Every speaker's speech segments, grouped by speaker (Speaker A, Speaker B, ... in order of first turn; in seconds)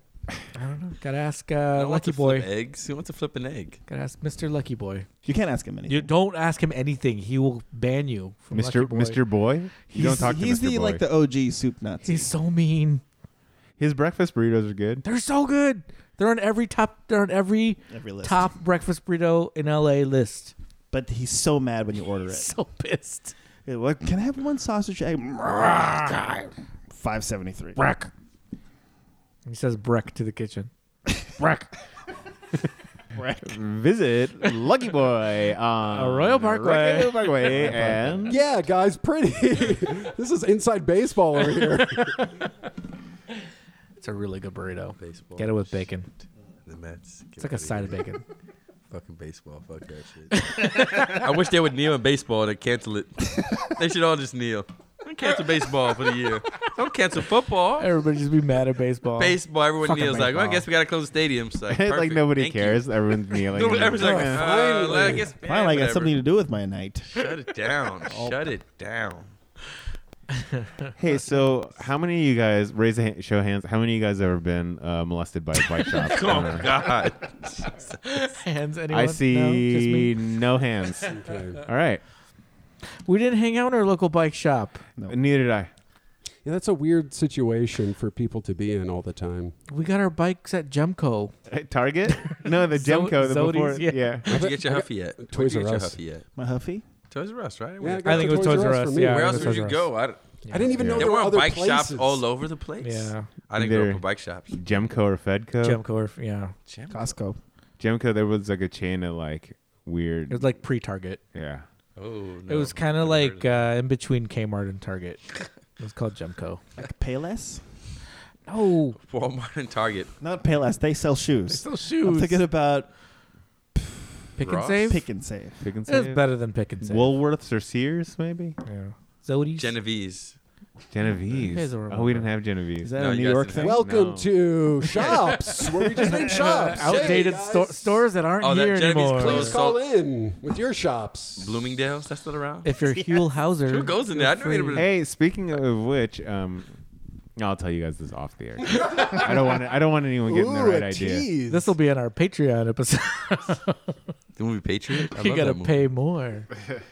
Speaker A: 0.5-2.5, 3.9-5.1, 5.8-9.2, 12.0-13.0, 15.0-20.5, 22.3-23.3, 27.8-28.1, 29.4-30.7, 35.9-38.3, 44.0-46.1, 47.4-48.2, 50.3-51.3, 57.8-60.6, 70.3-70.9, 78.0-80.2, 83.0-84.8, 89.7-91.3, 92.2-94.2, 98.0-99.8, 100.4-100.7, 102.8-103.3, 105.6-106.5, 110.3-111.2, 112.5-116.6, 118.5-119.0, 121.5-122.5, 124.3-125.1, 125.8-127.1, 128.6-129.7, 131.4-132.3, 136.6-139.6, 142.6-144.8, 151.5-154.0, 154.9-156.5
Speaker B: 1.7-3.8, 45.0-45.6, 46.6-48.0, 48.9-57.9, 59.2-66.2, 67.1-69.3, 75.9-78.2, 94.3-96.2, 97.1-100.2, 101.0-104.5, 106.7-107.1, 112.0-113.7, 119.0-120.1, 124.4-125.0, 129.6-130.4, 133.0-133.8, 136.9-137.2, 138.4-139.8, 141.4-144.9, 154.3-155.9
Speaker C: 5.2-6.1, 9.9-12.3, 17.9-18.5, 20.9-22.5, 23.7-27.8, 33.1-33.6, 60.1-60.5, 65.4-67.3, 68.0-68.4, 96.4-96.8, 106.9-107.4, 116.8-117.7, 120.2-122.9, 123.8-125.7, 132.8-133.8
Speaker D: 8.5-11.0, 13.8-15.0, 33.4-38.4, 61.7-64.5, 71.0-76.9, 78.9-82.0, 85.1-85.7, 91.5-94.3, 100.8-101.1, 103.5-105.8, 107.8-110.5, 111.3-111.7, 125.6-126.2, 126.8-128.6, 130.9-132.9, 133.6-134.7, 135.9-136.6, 144.7-146.7, 147.4-151.3
Speaker E: 38.2-42.3, 64.2-65.3, 81.1-81.6, 86.4-89.5, 94.3-96.0, 97.8-99.7, 100.5-102.2, 133.6-138.1, 139.2-141.6, 149.1-149.3, 150.2-151.7